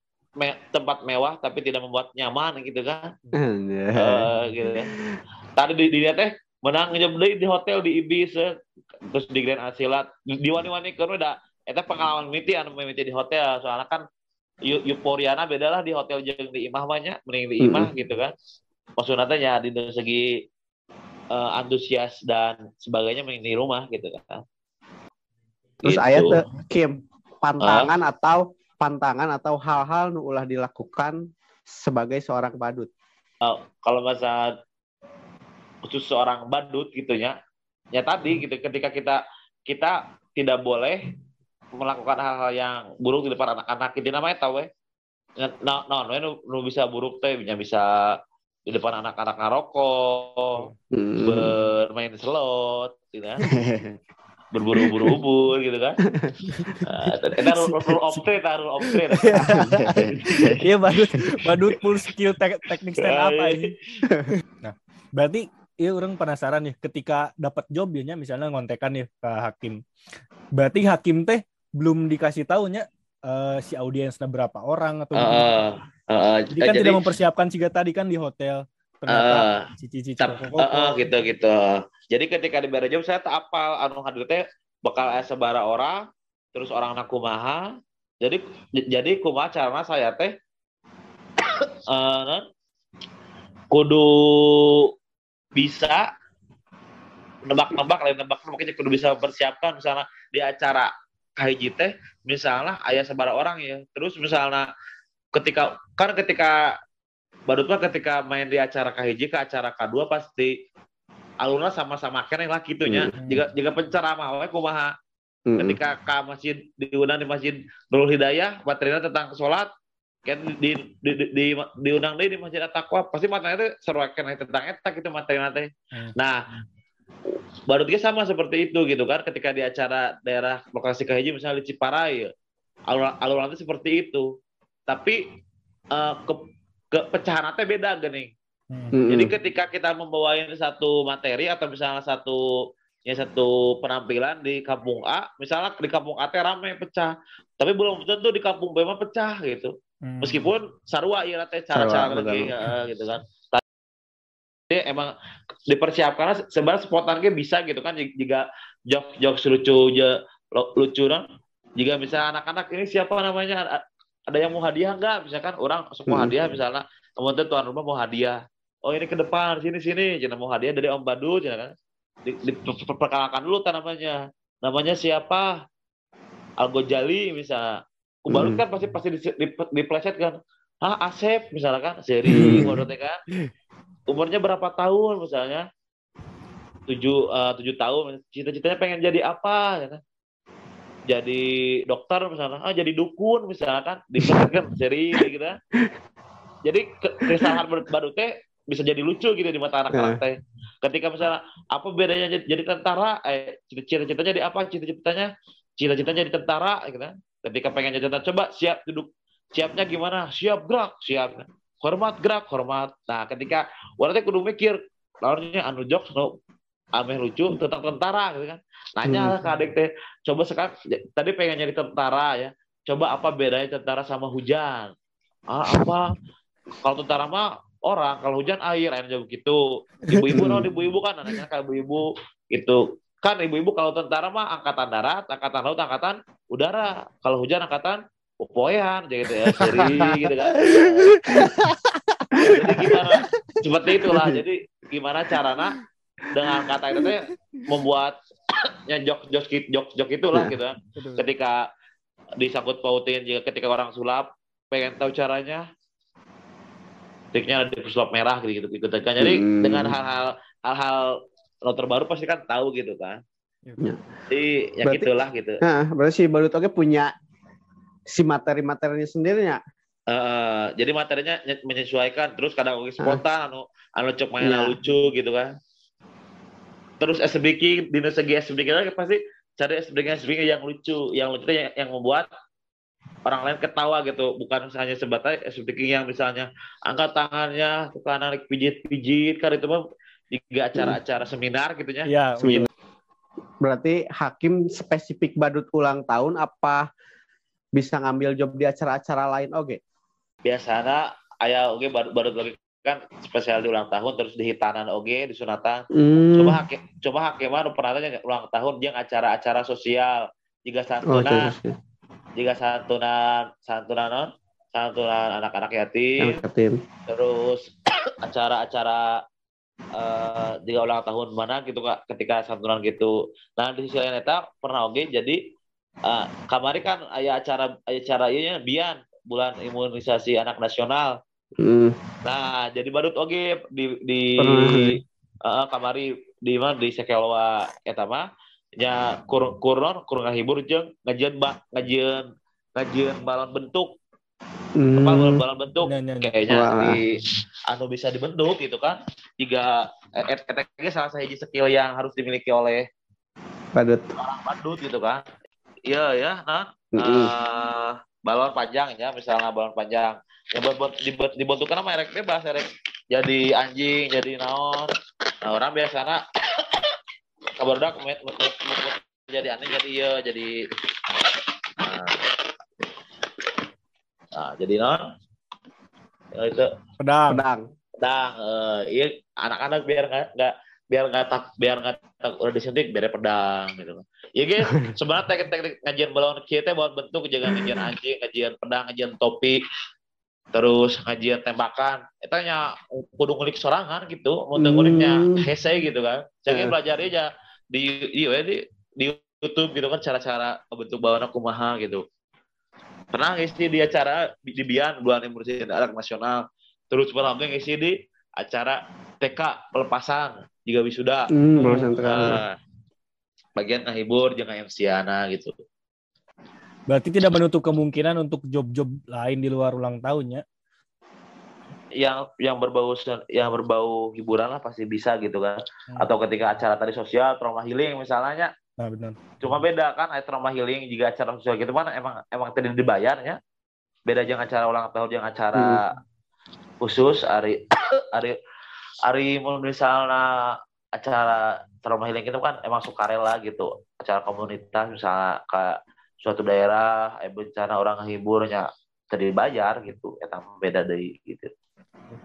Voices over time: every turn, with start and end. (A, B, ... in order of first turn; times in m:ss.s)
0:00.4-0:03.1 A
0:03.3-0:04.3 B
0:04.0-0:04.9 A
0:05.6-0:08.5 A
0:09.1-0:14.0 A
0:14.6-0:18.3 A
0:17.6-0:17.9 B
0:19.0-0:20.3 A
0:21.3-0:24.4 A
0:25.8-0:26.4 A
0:25.8-0:32.9 B
0:27.6-0:27.9 A
0:33.4-0:34.5 A
0:35.8-0:37.4 A
0:37.9-0:41.1 A
0:41.8-0:44.7 A
0:45.4-0:48.2 A
0:48.7-0:50.6 A
0:50.9-0:51.5 B
0:51.2-0:53.4 A
0:53.4-0:54.0 B
0:54.5-0:56.0 A
0:54.8-0:55.1 B
0:56.1-0:56.9 B
0:56.5-0:56.8 C
0:56.8-1:00.6 A
0:59.1-1:03.7 C
0:59.3-1:00.6 B
1:01.1-1:01.6 B
1:03.0-1:03.7 A
1:04.4-1:09.8 C
1:10.6-1:15.5 C
1:15.1-1:17.1 A
1:16.5-1:21.1 C
1:19.1-1:19.7 A
1:20.2-1:30.3 A
1:31.5-1:32.4 A
1:33.7-1:34.9 A
1:35.5-1:36.1 A
1:37.4-1:44.7 A
1:45.4-1:46.8 A
1:47.5-1:50.6 A
1:51.4-1:54.9 A
1:52.9-1:53.1 B
1:53.2-1:53.4 C
1:55.5-1:55.8 B
1:55.6-1:59.7 A
2:00.2-2:06.5 A
2:07.7-2:12.3 A
2:12.9-2:14.3 A
2:14.9-2:15.2 A
2:15.9-2:18.3 A
2:18.7-2:18.9 C
2:18.9-2:19.3 B
2:19.1-2:33.6 A
2:30.0-2:30.5 C
2:31.7-2:32.5 B
2:34.7-2:35.1 A
2:35.7-2:41.2 A
2:41.8-2:51.7 A
2:46.1-2:46.4 B
2:52.3-2:55.6 A
2:56.6-3:03.2 A
2:58.3-2:58.6 B
3:02.3-3:02.8 B
3:02.3-3:02.7 C
3:04.1-3:05.6 A
3:06.9-3:10.0 A
3:11.1-3:15.6 A
3:14.2-3:14.5 B
3:16.6-3:36.3 A
3:17.2-3:17.6 B
3:19.9-3:20.2 B
3:37.0-3:44.9 A
3:39.1-3:39.4 B
3:45.5-3:46.1 A
3:46.8-4:01.3 A
3:50.1-3:50.7 C
3:50.3-3:50.6 B
3:59.6-4:00.1 C
4:00.6-4:02.5 C
4:02.4-4:03.0 B
4:02.4-4:05.8 A
4:04.1-4:04.4 B
4:06.3-4:08.2 A
4:08.9-4:11.6 A
4:12.4-4:15.6 A
4:17.3-4:23.2 A
4:19.2-4:20.0 B
4:23.6-4:24.0 C
4:24.3-4:25.6 A
4:25.6-4:27.1 B
4:28.1-4:29.6 B
4:30.1-4:35.5 A
4:34.4-4:34.7 B
4:37.0-4:42.3 A
4:43.3-4:49.8 A
4:50.3-4:52.1 A
4:52.0-4:52.7 C
4:52.4-4:52.7 B
4:53.6-4:56.9 B
4:57.7-4:59.8 B
5:00.4-5:05.8 A
5:05.9-5:06.6 B
5:06.4-5:11.5 A
5:11.1-5:11.8 B
5:12.4-5:16.4 A
5:16.2-5:16.8 B
5:17.1-5:17.7 A
5:18.2-5:19.2 A
5:19.9-5:25.4 A
5:26.0-5:31.2 A
5:31.6-5:32.0 B
5:32.2-5:38.3 A
5:34.4-5:35.0 B
5:38.8-5:44.0 A
5:44.8-5:45.4 B
5:44.9-5:47.1 A
5:45.8-5:46.3 C
5:46.5-5:47.0 B
5:47.7-5:52.9 A
5:53.7-5:54.0 B
5:54.2-5:55.2 A
5:55.9-6:04.9 A
5:57.0-5:57.3 B
6:05.4-6:06.9 A
6:07.6-6:10.6 A
6:11.8-6:12.4 A
6:14.4-6:15.0 A
6:16.3-6:16.7 A
6:17.0-6:17.4 C
6:17.3-6:17.7 B
6:18.0-6:29.6 A
6:27.5-6:27.9 B
6:30.5-6:42.0 A
6:34.6-6:35.4 B
6:36.5-6:36.7 B
6:43.1-6:51.3 A
6:51.3-6:52.4 B
6:51.6-6:51.9 C
6:52.0-6:52.5 A
6:53.6-6:55.5 A
6:56.9-7:00.4 C
7:02.0-7:08.5 A
7:08.8-7:09.2 C
7:09.4-7:13.4 A
7:14.1-7:15.9 A
7:15.6-7:15.8 B
7:16.8-7:18.4 A
7:19.1-7:31.5 A